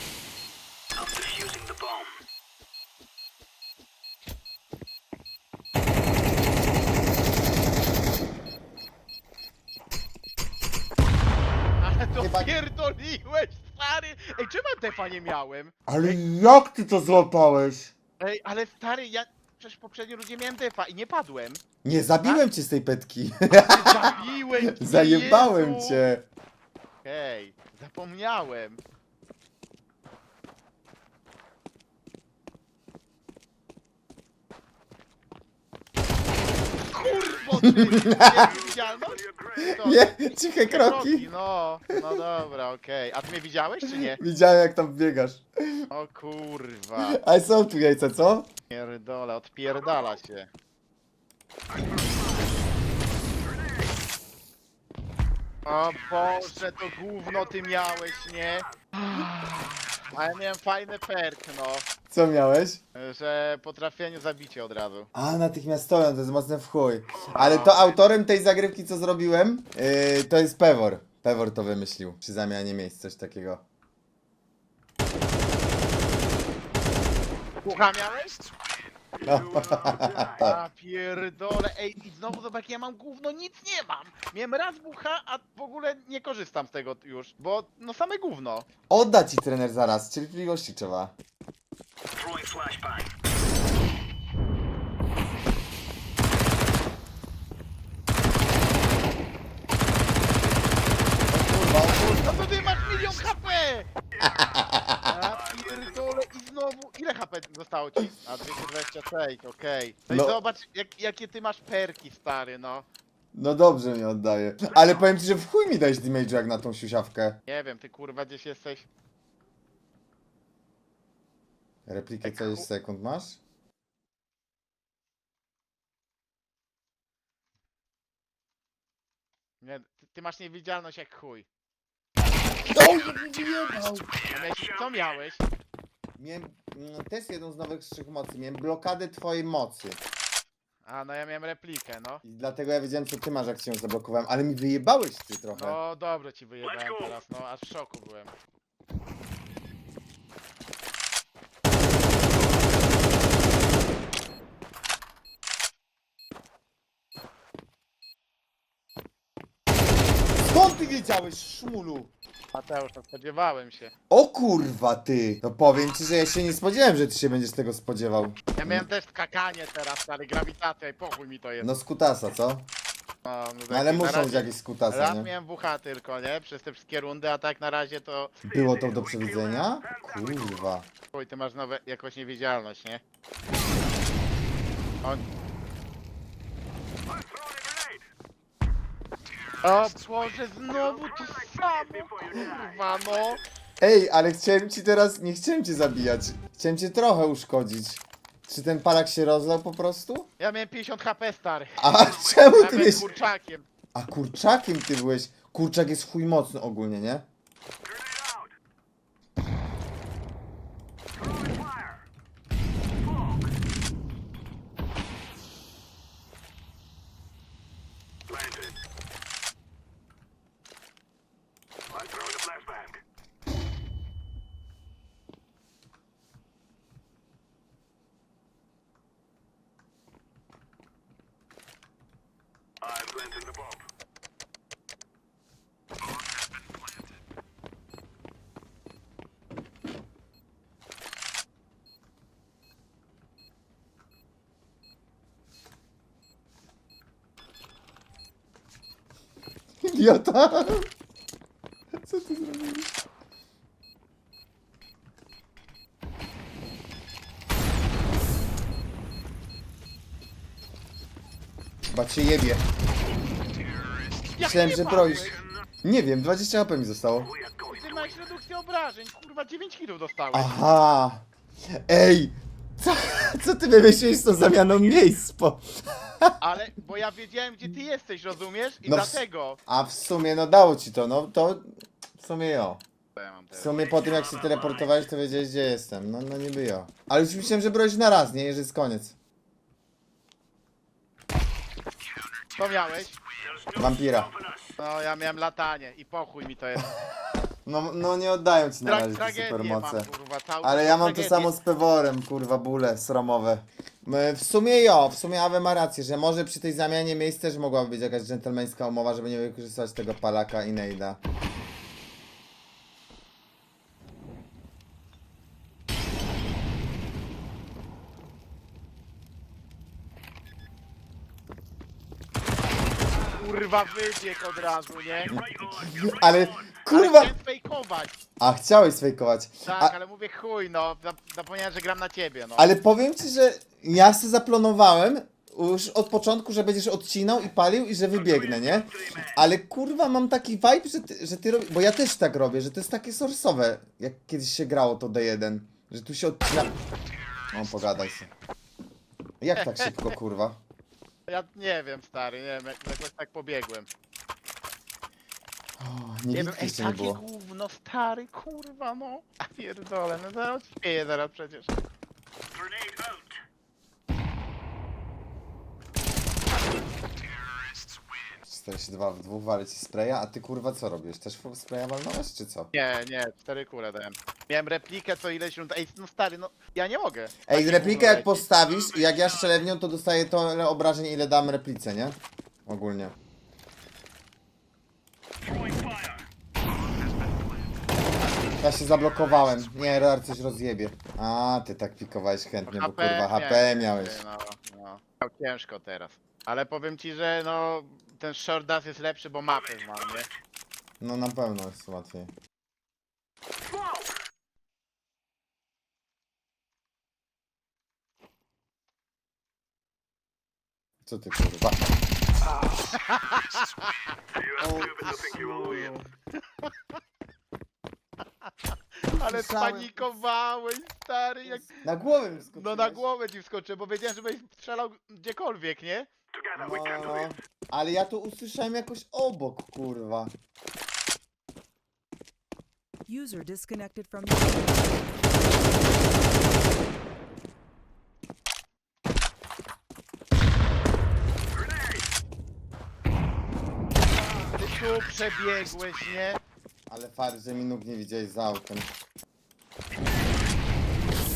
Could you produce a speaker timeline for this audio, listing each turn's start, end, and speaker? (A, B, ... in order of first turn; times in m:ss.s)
0:00.9-0:02.2 A
0:11.8-0:16.2 B
0:12.2-0:12.5 C
0:15.9-0:17.9 C
0:18.2-0:21.6 B
0:21.8-0:26.2 C
0:23.6-0:26.0 B
0:27.0-0:28.8 B
0:36.9-0:44.2 B
0:37.6-0:38.5 C
0:38.2-0:39.8 A
0:39.6-0:41.3 C
0:43.8-0:45.8 C
0:45.9-0:47.2 B
0:47.0-0:48.5 C
0:48.7-0:50.5 B
0:51.7-0:52.6 A
0:53.4-0:53.9 A
0:55.6-1:01.8 B
0:57.4-0:58.3 A
1:02.1-1:02.8 C
1:02.9-1:05.1 B
1:05.1-1:13.6 C
1:07.4-1:07.7 B
1:17.6-1:18.4 B
1:19.2-1:20.4 A
1:19.2-1:20.6 C
1:20.4-1:28.7 B
1:28.9-1:31.1 C
1:32.1-1:33.1 A
1:41.3-1:42.5 C
1:42.2-1:43.9 B
1:44.2-1:44.6 A
1:44.2-1:45.1 C
1:45.1-1:52.8 B
1:45.4-1:45.9 A
1:50.1-1:50.4 C
1:53.3-1:57.4 C
1:57.5-1:58.9 B
2:01.8-2:03.4 C
2:02.2-2:02.7 B
2:09.6-2:11.5 B
2:12.6-2:14.1 C
2:14.3-2:15.4 B
2:14.3-2:14.8 A
2:16.2-2:20.0 C
2:20.8-2:22.2 B
2:22.2-2:25.8 C
2:25.5-2:28.3 B
2:26.6-2:27.1 A
2:40.4-2:42.1 C
2:42.5-2:43.9 B
2:44.1-2:48.8 C
2:48.6-2:51.7 B
2:51.6-2:52.7 C
2:53.2-2:58.4 B
2:53.7-2:55.3 C
2:58.4-3:00.9 C
2:58.5-3:00.6 A
3:01.1-3:03.0 B
3:07.0-3:08.1 A
3:09.6-3:13.4 B
3:10.7-3:13.2 A
3:13.8-3:20.3 C
3:20.4-3:23.6 B
3:21.8-3:23.1 C
3:22.3-3:22.9 A
3:23.9-3:27.2 C
3:27.8-3:28.5 A
3:31.1-3:32.0 A
3:33.0-3:33.5 A
3:38.3-3:38.8 A
3:41.9-3:43.0 A
3:52.8-3:53.8 A
4:09.8-4:10.9 C
4:12.0-4:13.0 C
4:21.9-4:22.6 C
4:24.3-4:25.4 B
4:24.4-4:27.3 C
4:27.2-4:28.2 A
4:27.7-4:30.6 B
4:30.3-4:36.3 C
4:36.4-4:39.6 B
4:38.8-4:42.8 C
4:43.2-4:43.8 B
4:43.5-4:49.1 C
4:44.3-4:44.8 A
4:52.6-4:53.2 B
4:53.4-4:54.7 A
4:53.7-4:54.3 C
4:54.8-4:56.9 B
4:57.6-5:00.1 C
4:58.8-5:01.5 B
5:00.6-5:11.2 C
5:23.3-5:25.3 B
5:25.3-5:26.8 A
5:25.3-5:27.3 C
5:26.9-5:28.2 B
5:28.4-5:29.9 C
5:29.6-5:32.7 B
5:32.6-5:46.8 C
5:38.2-5:39.3 A
5:47.5-5:48.3 C
5:49.4-5:50.6 C
5:49.6-5:49.9 B
5:51.3-5:53.9 B
5:55.8-5:57.2 C
5:56.3-6:01.8 B
6:02.5-6:03.4 A
6:08.4-6:12.7 C
6:12.7-6:18.4 B
6:17.5-6:23.1 C
6:18.7-6:19.5 A
6:25.4-6:26.3 A
6:28.6-6:34.2 C
6:32.6-6:40.3 B
6:41.0-6:42.3 C
6:43.6-6:44.2 A
6:51.0-6:51.8 C
6:52.9-6:53.9 B
6:54.3-6:55.9 A
6:54.6-6:56.1 C
6:59.0-7:01.7 B
6:59.1-7:00.1 C
7:01.4-7:03.0 C
7:02.5-7:06.1 B
7:06.3-7:07.3 A
7:06.6-7:10.3 C
7:13.1-7:15.1 D
7:21.5-7:22.1 A
7:24.5-7:26.4 B
7:26.9-7:28.9 C